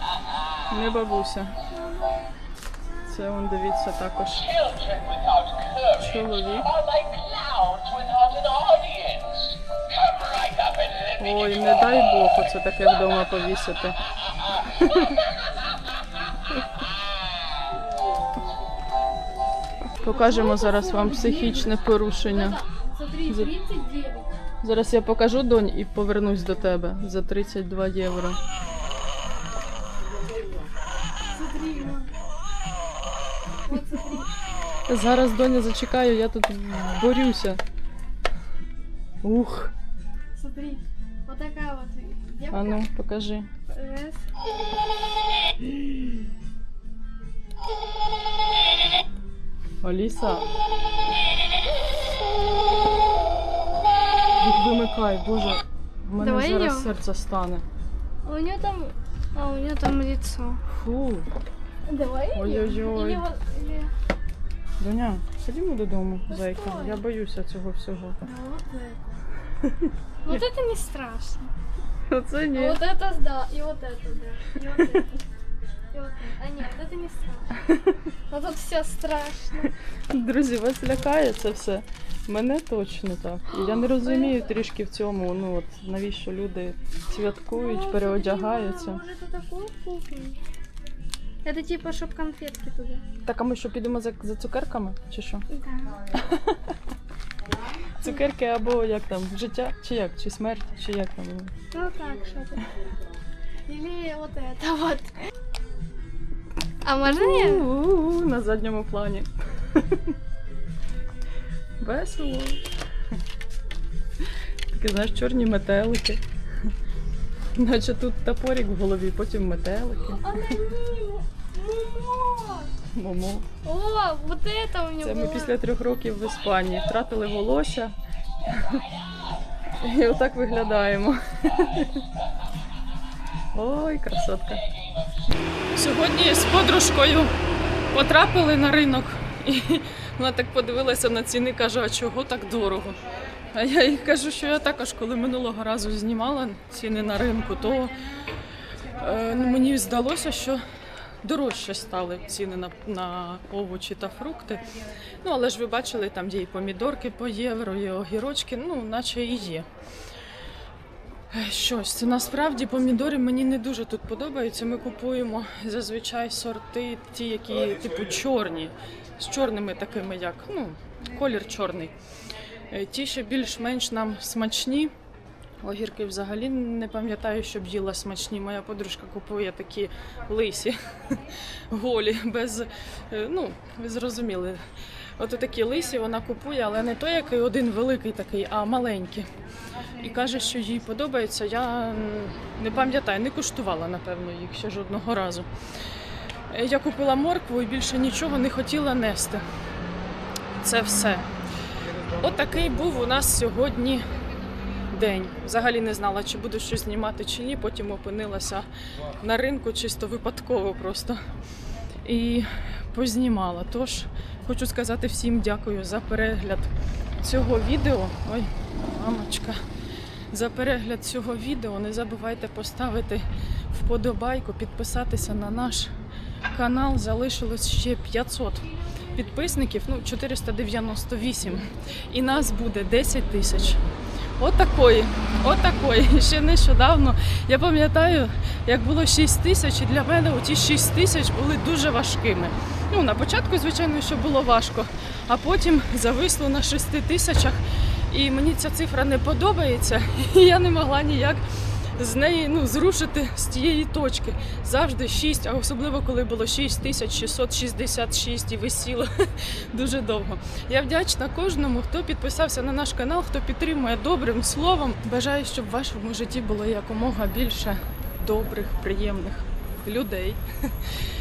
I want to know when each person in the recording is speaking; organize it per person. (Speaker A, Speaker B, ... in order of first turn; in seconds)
Speaker A: 0.7-1.5, 3.0-4.5, 6.0-6.7, 11.2-13.9, 14.7-15.1, 20.0-22.6, 24.6-28.4, 34.9-37.6, 39.2-39.7, 42.5-43.5, 49.8-50.5, 54.4-57.6, 60.7-61.3, 62.3-63.2, 64.8-68.2, 69.6-70.4, 72.1-72.8, 77.7-77.9, 80.1-89.0, 93.2-95.4, 96.1-96.6, 98.0-101.5, 107.0-110.0, 111.8-112.6, 114.7-116.2, 117.5-120.3, 122.9-123.5, 125.0-127.9, 128.5-128.8, 129.8-132.0, 133.5-134.6, 135.7-137.3, 137.9-143.0, 143.5-147.9, 148.9-150.6, 151.2-154.7, 155.2-159.7, 161.3-171.9, 172.7-174.9, 175.6-184.6, 185.2-189.3, 190.0-195.5, 196.5-199.4, 200.6-201.3, 202.2-204.1, 204.9-208.7, 209.2-211.2, 212.0-219.6, 220.3-225.9, 226.5-233.8, 234.4-251.4, 252.0-259.1, 259.7-270.7
Speaker B: 1.7-2.1, 20.0-24.3, 31.3-32.1, 33.7-34.3, 40.3-42.8, 43.7-44.2, 56.2-56.9, 58.2-60.6, 61.9-63.9, 66.3-67.0, 68.2-69.0, 70.2-71.5, 72.5-75.2, 75.9-77.5, 78.3-79.7, 83.5-84.4, 87.5-90.4, 91.4-93.0, 95.5-96.0, 98.0-98.2, 101.7-102.8, 103.7-105.1, 106.8-107.7, 120.2-122.7, 123.6-125.5